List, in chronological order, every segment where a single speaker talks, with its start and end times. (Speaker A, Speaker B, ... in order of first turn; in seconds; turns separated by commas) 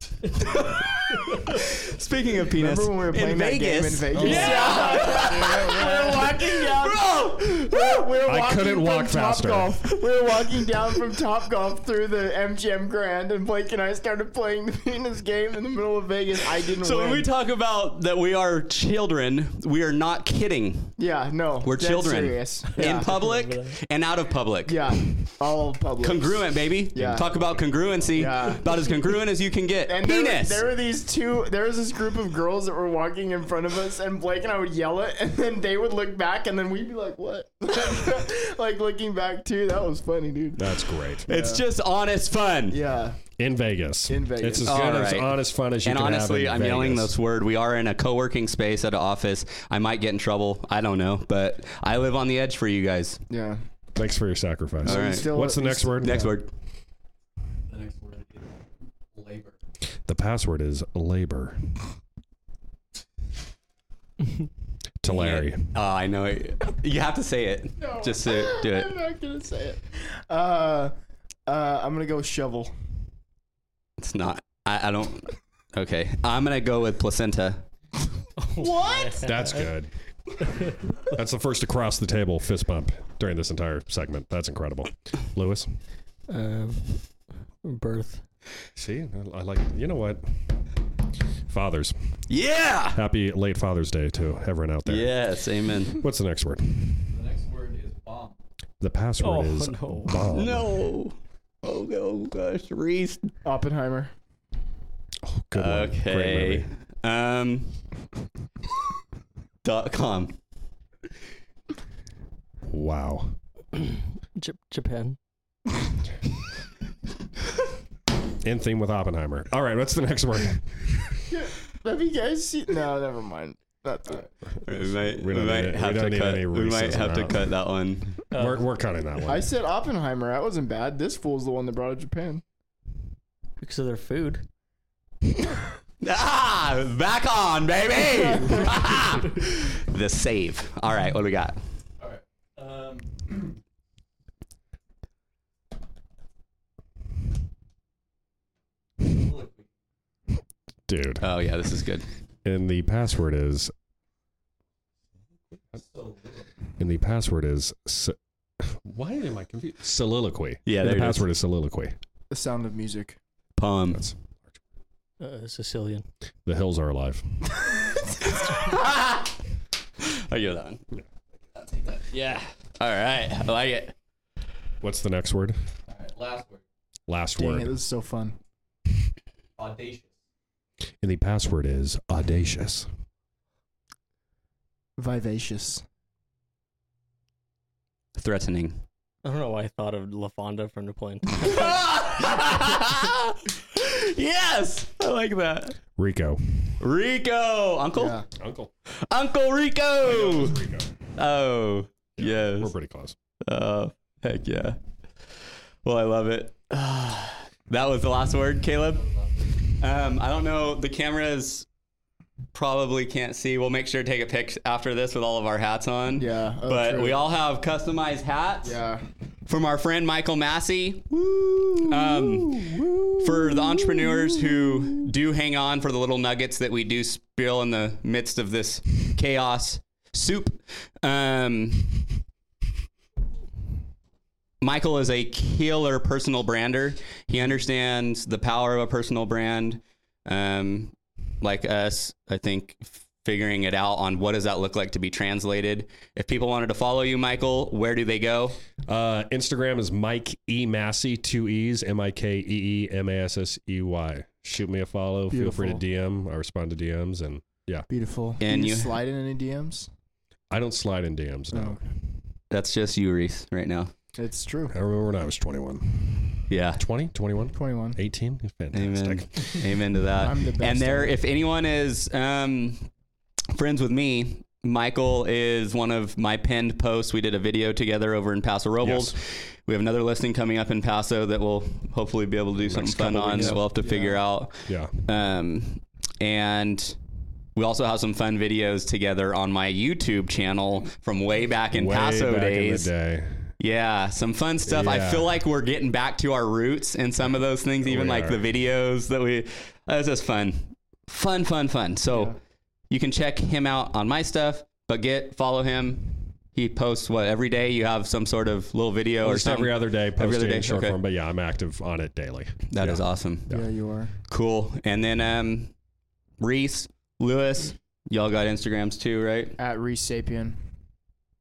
Speaker A: 0.3-8.0, Speaker B: 2.5-17.3, Speaker C: 4.1-4.8, Speaker D: 4.3-6.3, Speaker C: 8.2-10.0, Speaker A: 16.7-21.0, Speaker B: 21.0-23.1, Speaker A: 21.6-25.2, Speaker D: 22.8-23.8, Speaker B: 24.7-27.4, Speaker A: 26.0-30.6, Speaker B: 28.1-29.1, Speaker B: 29.9-41.6, Speaker C: 40.6-41.3, Speaker A: 41.3-42.8, Speaker B: 42.7-43.2, Speaker C: 43.4-47.1, Speaker B: 44.1-44.8, Speaker A: 44.6-53.2, Speaker B: 53.3-53.6, Speaker C: 54.0-56.4, Speaker A: 54.8-56.5, Speaker B: 54.9-56.1, Speaker E: 57.7-59.6, Speaker C: 60.1-61.7, Speaker C: 65.0-65.8, Speaker A: 65.1-69.0, Speaker B: 67.8-70.9, Speaker B: 71.5-72.7, Speaker A: 74.0-77.7, Speaker D: 78.4-79.7, Speaker B: 78.6-79.3, Speaker C: 79.2-80.0, Speaker C: 81.0-85.8, Speaker D: 86.3-88.2, Speaker C: 88.8-90.6, Speaker C: 91.5-92.0, Speaker A: 92.3-93.0, Speaker C: 92.9-95.1, Speaker A: 94.9-96.0, Speaker C: 96.0-97.0, Speaker E: 97.1-98.4, Speaker C: 98.8-100.8, Speaker D: 99.2-100.4, Speaker A: 100.3-103.3, Speaker B: 103.4-104.1, Speaker C: 105.2-106.7, Speaker A: 105.6-107.8, Speaker A: 109.6-110.4, Speaker C: 112.7-113.4, Speaker D: 114.4-115.2, Speaker C: 118.4-121.2, Speaker B: 121.3-124.3, Speaker A: 124.6-128.2, Speaker C: 124.7-127.5, Speaker D: 128.3-128.6, Speaker C: 128.3-129.5, Speaker B: 129.3-132.4, Speaker D: 133.6-134.4, Speaker A: 136.0-141.6, Speaker E: 142.0-143.6, Speaker E: 149.0-149.7, Speaker C: 150.9-151.2, Speaker A: 151.2-152.1, Speaker C: 152.4-153.7, Speaker E: 155.7-156.5, Speaker C: 156.8-162.0, Speaker A: 160.7-161.3, Speaker B: 162.3-163.2, Speaker A: 163.6-164.1, Speaker C: 163.9-164.6, Speaker D: 165.2-166.1, Speaker C: 166.4-167.2, Speaker A: 168.2-169.4, Speaker A: 170.0-170.8, Speaker E: 171.5-172.4, Speaker A: 172.8-173.9, Speaker C: 174.8-175.6, Speaker E: 175.9-176.6, Speaker C: 177.1-177.8, Speaker B: 177.4-178.4, Speaker E: 179.6-180.2, Speaker C: 181.0-182.9, Speaker B: 185.0-185.8, Speaker A: 188.2-188.8, Speaker D: 189.2-191.7, Speaker A: 191.4-195.8, Speaker C: 196.0-196.4, Speaker A: 196.8-198.2, Speaker B: 197.9-198.3, Speaker C: 198.3-198.7, Speaker A: 198.9-200.6, Speaker C: 200.0-200.9, Speaker A: 201.2-202.7, Speaker C: 202.2-203.2, Speaker A: 203.4-204.8, Speaker A: 205.8-209.0, Speaker E: 208.9-209.6, Speaker A: 209.8-211.7, Speaker A: 212.5-218.8, Speaker B: 216.2-217.2, Speaker B: 218.6-219.0, Speaker A: 219.5-221.2, Speaker B: 221.2-225.0, Speaker A: 221.8-232.2, Speaker A: 234.6-248.6, Speaker C: 248.9-257.9, Speaker B: 255.3-255.8, Speaker B: 257.9-259.9, Speaker A: 258.4-259.0, Speaker C: 260.5-261.8, Speaker B: 261.5-261.9, Speaker A: 262.5-263.9, Speaker B: 264.2-264.8, Speaker C: 264.7-269.8, Speaker A: 266.5-266.9, Speaker B: 267.5-268.0, Speaker A: 268.7-272.9, Speaker B: 270.2-271.2, Speaker A: 273.5-287.0, Speaker C: 278.8-279.2, Speaker C: 282.6-283.7, Speaker B: 283.4-284.2, Speaker C: 284.7-284.9, Speaker A: 287.6-292.9, Speaker C: 291.7-293.5, Speaker A: 293.6-302.4, Speaker C: 294.7-295.4, Speaker C: 297.8-298.4, Speaker A: 302.9-311.0, Speaker C: 309.2-313.6, Speaker A: 312.7-313.6, Speaker B: 313.5-314.1, Speaker A: 314.2-315.7, Speaker A: 316.4-319.6, Speaker B: 319.6-320.6